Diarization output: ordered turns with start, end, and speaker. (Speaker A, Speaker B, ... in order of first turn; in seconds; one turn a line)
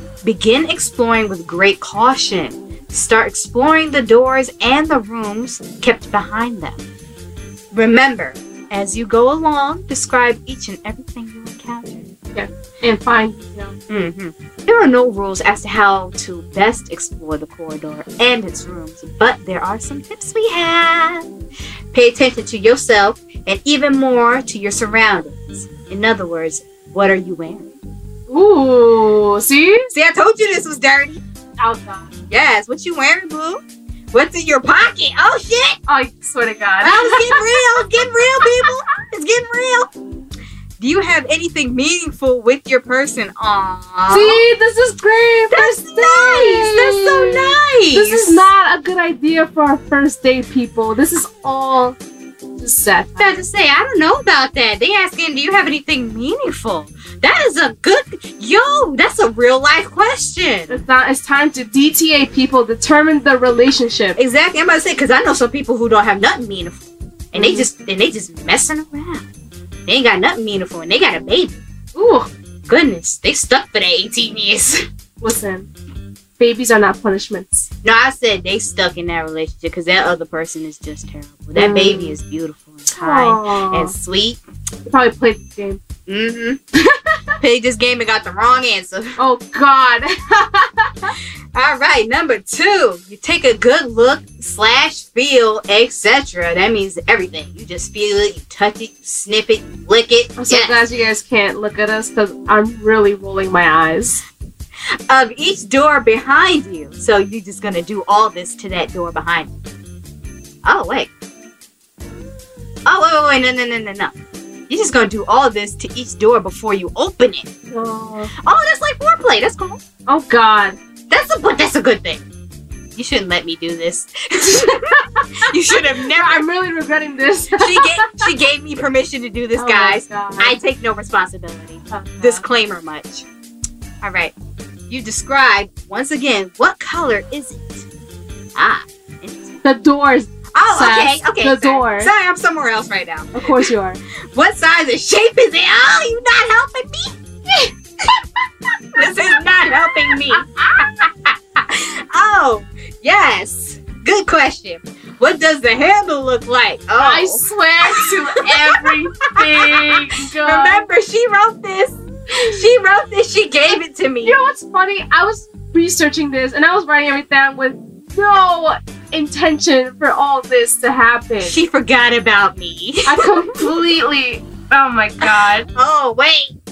Speaker A: 0.2-6.9
Speaker A: 7.7-12.1
Speaker B: 12.3-13.8
Speaker A: 13.9-21.3
Speaker A: 21.9-27.7
Speaker B: 28.3-29.9
Speaker A: 29.9-31.2
Speaker B: 31.6-32.1
Speaker A: 32.3-35.8
Speaker B: 35.9-38.7
Speaker A: 36.8-39.9
Speaker A: 40.8-44.4
Speaker B: 44.1-52.0
Speaker A: 45.5-48.5
Speaker B: 52.6-53.5
Speaker A: 53.2-60.8
Speaker B: 60.7-64.2
Speaker A: 64.2-69.2
Speaker B: 67.3-67.7
Speaker A: 69.9-71.6
Speaker B: 71.9-72.3
Speaker A: 72.7-74.8
Speaker B: 75.2-75.7
Speaker B: 76.4-77.7
Speaker A: 77.8-84.4
Speaker B: 81.6-82.2
Speaker B: 82.9-83.9
Speaker B: 84.8-85.8
Speaker A: 86.1-86.6
Speaker B: 86.7-87.3
Speaker A: 87.4-89.2
Speaker B: 89.2-91.1
Speaker A: 91.5-100.8
Speaker B: 100.4-104.2
Speaker A: 105.1-109.5
Speaker A: 110.6-111.1
Speaker A: 112.9-114.1
Speaker A: 114.7-117.5
Speaker B: 117.7-118.3
Speaker A: 118.4-119.8
Speaker B: 120.1-120.8
Speaker A: 121.1-122.2
Speaker A: 123.0-126.5
Speaker B: 124.5-125.3
Speaker B: 126.0-128.3
Speaker A: 127.6-133.2
Speaker B: 129.6-130.6
Speaker B: 131.9-132.4
Speaker A: 134.0-134.3
Speaker A: 134.9-137.9
Speaker A: 138.6-139.6
Speaker B: 139.6-142.1
Speaker A: 140.5-143.7
Speaker B: 143.3-144.0
Speaker A: 144.3-147.2
Speaker A: 148.9-164.5
Speaker B: 149.0-149.3
Speaker B: 149.9-150.4
Speaker B: 157.0-160.9
Speaker B: 164.2-171.6
Speaker A: 171.4-173.8
Speaker B: 173.1-175.7
Speaker A: 175.2-176.6